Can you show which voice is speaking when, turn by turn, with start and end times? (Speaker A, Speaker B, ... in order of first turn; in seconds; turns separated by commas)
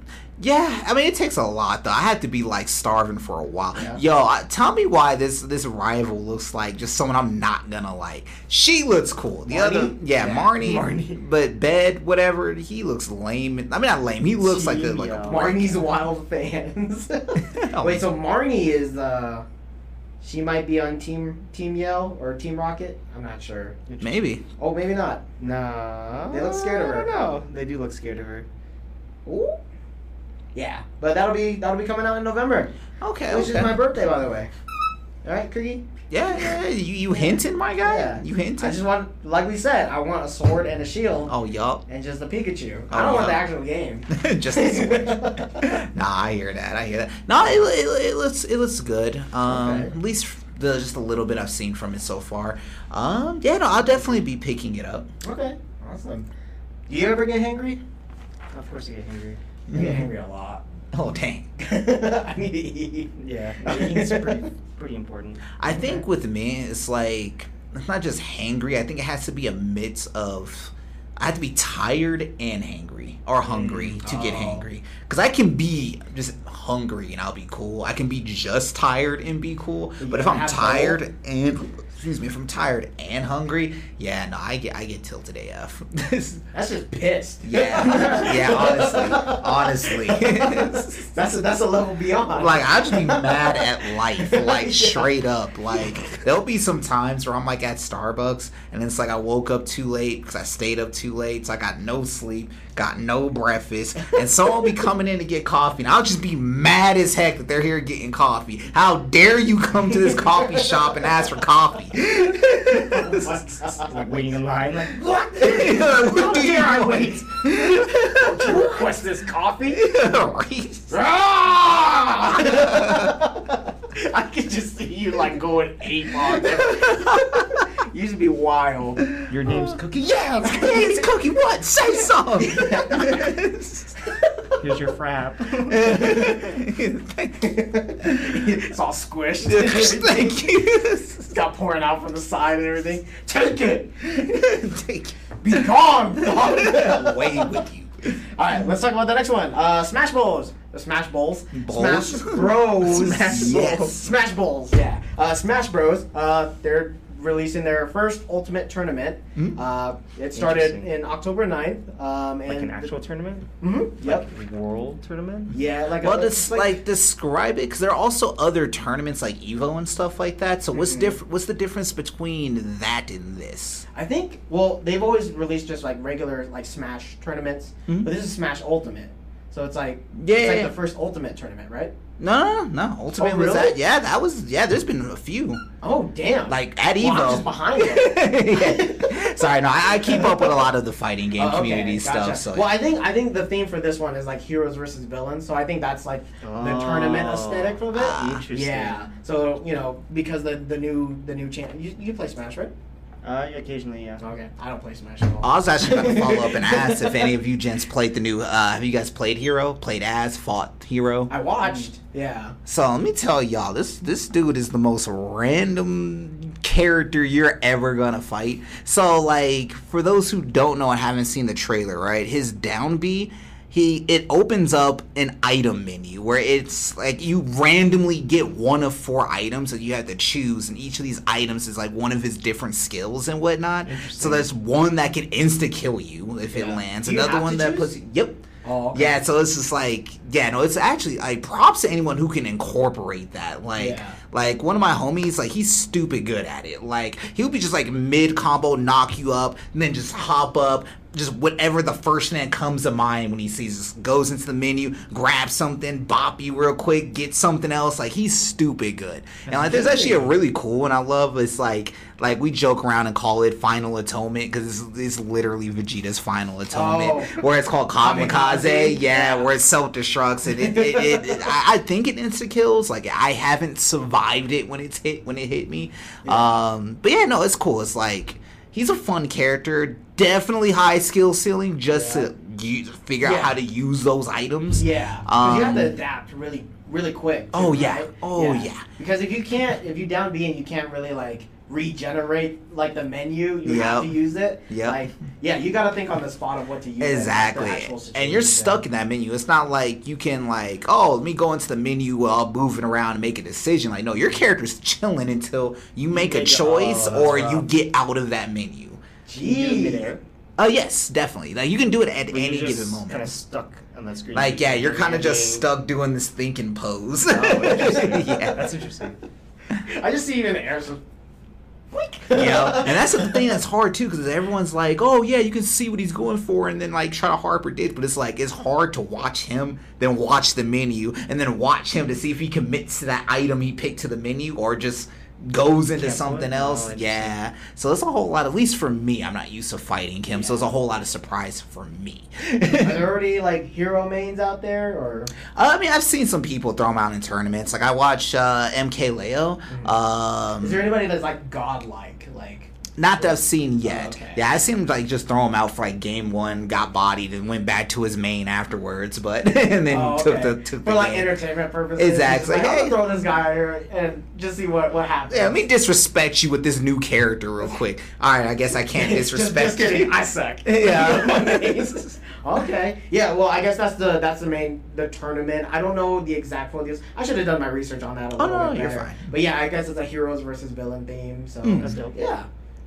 Speaker A: 0.4-15.8, Speaker B: 3.7-4.0, Speaker B: 9.5-11.2, Speaker C: 14.4-15.6, Speaker B: 15.3-19.5, Speaker A: 17.5-18.1, Speaker B: 20.2-23.9, Speaker C: 23.9-24.2, Speaker A: 24.0-24.4, Speaker B: 24.5-25.3, Speaker C: 25.4-28.5, Speaker B: 26.3-27.2, Speaker B: 29.3-29.6, Speaker B: 30.6-32.7, Speaker A: 33.0-33.8, Speaker B: 33.3-34.5, Speaker B: 35.2-35.9, Speaker A: 36.1-38.8, Speaker B: 37.1-41.3, Speaker A: 41.3-41.8, Speaker B: 41.9-45.8, Speaker A: 42.9-43.5, Speaker A: 44.1-55.1, Speaker B: 49.5-49.9, Speaker B: 55.2-56.3, Speaker B: 56.9-57.8, Speaker C: 58.5-59.4, Speaker A: 59.7-60.1, Speaker B: 59.7-60.6, Speaker A: 60.9-61.5, Speaker B: 61.6-64.5, Speaker C: 63.2-65.6, Speaker A: 65.6-86.5, Speaker B: 65.7-66.0, Speaker C: 73.4-74.0, Speaker B: 74.0-74.7, Speaker B: 80.0-81.0, Speaker B: 86.5-95.2, Speaker A: 87.4-91.1, Speaker A: 92.3-113.4, Speaker B: 110.4-110.8, Speaker B: 112.8-114.1, Speaker C: 113.7-115.0, Speaker B: 114.9-117.3, Speaker A: 115.4-118.8, Speaker C: 116.3-116.6, Speaker B: 118.1-120.0, Speaker A: 119.7-121.0, Speaker B: 120.9-129.2, Speaker A: 122.3-123.2, Speaker A: 126.2-127.6, Speaker A: 129.1-133.9, Speaker C: 129.3-130.2, Speaker B: 130.4-131.1, Speaker B: 132.4-133.3, Speaker B: 134.2-134.6, Speaker C: 134.6-136.3, Speaker A: 135.7-138.5, Speaker B: 136.0-136.4, Speaker B: 137.4-140.4, Speaker A: 139.4-141.3, Speaker B: 141.3-144.4, Speaker A: 144.1-148.2, Speaker B: 145.4-147.6, Speaker B: 148.2-162.9, Speaker A: 151.5-154.2, Speaker C: 153.4-153.7, Speaker C: 160.4-160.9, Speaker C: 162.5-163.5, Speaker B: 163.6-164.3, Speaker C: 164.0-165.5, Speaker B: 165.5-166.8, Speaker A: 166.0-173.9, Speaker B: 170.7-171.2, Speaker B: 173.9-181.9, Speaker A: 177.9-178.1, Speaker A: 180.2-180.7, Speaker A: 182.2-185.6, Speaker B: 183.2-183.8, Speaker B: 185.8-189.4, Speaker A: 186.5-192.8, Speaker B: 190.0-190.7, Speaker B: 191.4-202.7, Speaker C: 196.4-199.0, Speaker A: 197.9-198.5, Speaker C: 203.2-204.2, Speaker B: 204.2-207.2, Speaker A: 205.4-211.3, Speaker B: 211.3-212.6, Speaker A: 212.7-238.4, Speaker C: 233.8-234.5, Speaker B: 236.5-237.9, Speaker B: 238.6-239.2, Speaker A: 238.9-286.0, Speaker B: 243.8-244.2, Speaker C: 259.5-260.2, Speaker B: 259.5-260.2, Speaker B: 266.7-267.4, Speaker B: 268.0-269.5, Speaker B: 270.6-271.5, Speaker B: 276.2-276.6, Speaker B: 281.9-282.3, Speaker B: 283.2-283.6, Speaker B: 284.8-298.8, Speaker A: 287.5-288.9, Speaker A: 293.6-294.2, Speaker A: 294.7-295.0, Speaker A: 297.0-309.0, Speaker C: 306.1-307.7, Speaker B: 309.3-310.1, Speaker C: 309.4-310.2, Speaker A: 310.6-313.4, Speaker C: 312.3-315.6, Speaker A: 314.4-318.7, Speaker C: 317.3-319.2, Speaker B: 319.7-321.0, Speaker B: 321.9-323.5, Speaker A: 322.3-343.1, Speaker C: 336.0-337.4, Speaker B: 340.3-340.7, Speaker B: 342.7-345.3, Speaker A: 345.5-350.9, Speaker B: 349.7-349.9, Speaker B: 350.6-354.4, Speaker A: 353.0-361.3, Speaker B: 359.9-365.6, Speaker A: 362.0-363.0, Speaker A: 365.3-371.9, Speaker B: 368.9-382.5, Speaker A: 378.4-379.3, Speaker A: 381.6-382.0, Speaker C: 381.8-382.3